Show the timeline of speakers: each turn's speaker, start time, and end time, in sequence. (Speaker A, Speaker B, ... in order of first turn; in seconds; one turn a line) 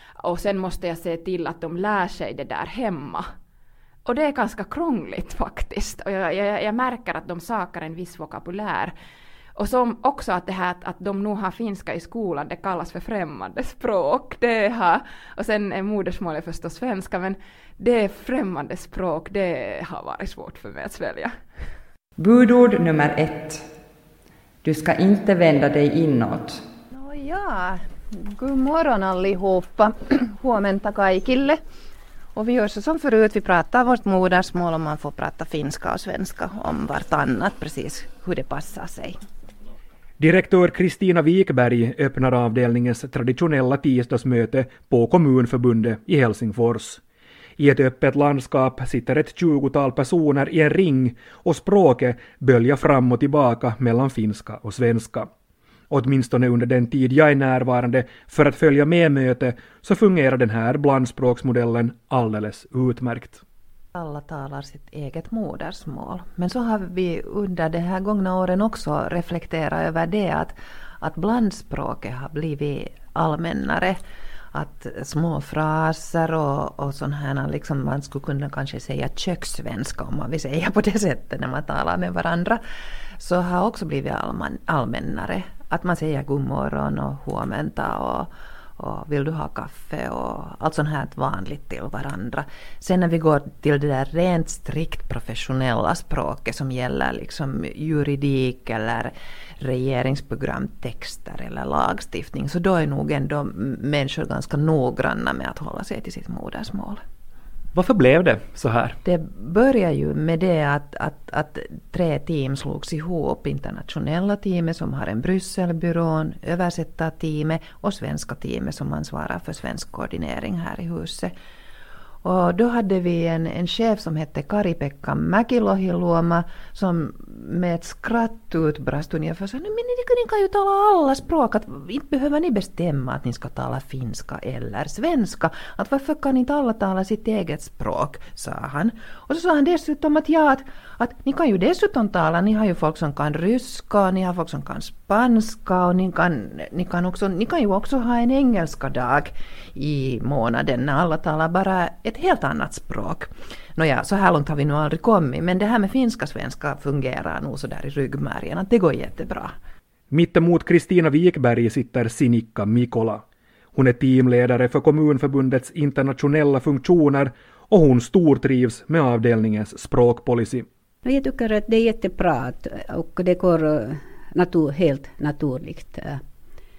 Speaker A: 0.2-3.2
Speaker A: 4.0-8.9
Speaker A: 9.5-21.3
Speaker B: 22.2-23.6
Speaker B: 24.6-26.6
Speaker C: 26.9-31.6
Speaker C: 32.4-39.1
Speaker D: 40.2-47.0
Speaker D: 47.6-55.3
Speaker D: 55.9-63.4
Speaker C: 64.0-74.0
Speaker C: 74.5-82.6
Speaker C: 83.2-107.0
Speaker D: 107.7-109.0
Speaker C: 109.0-121.3
Speaker C: 122.2-159.5
Speaker D: 160.1-170.7
Speaker E: 171.0-176.2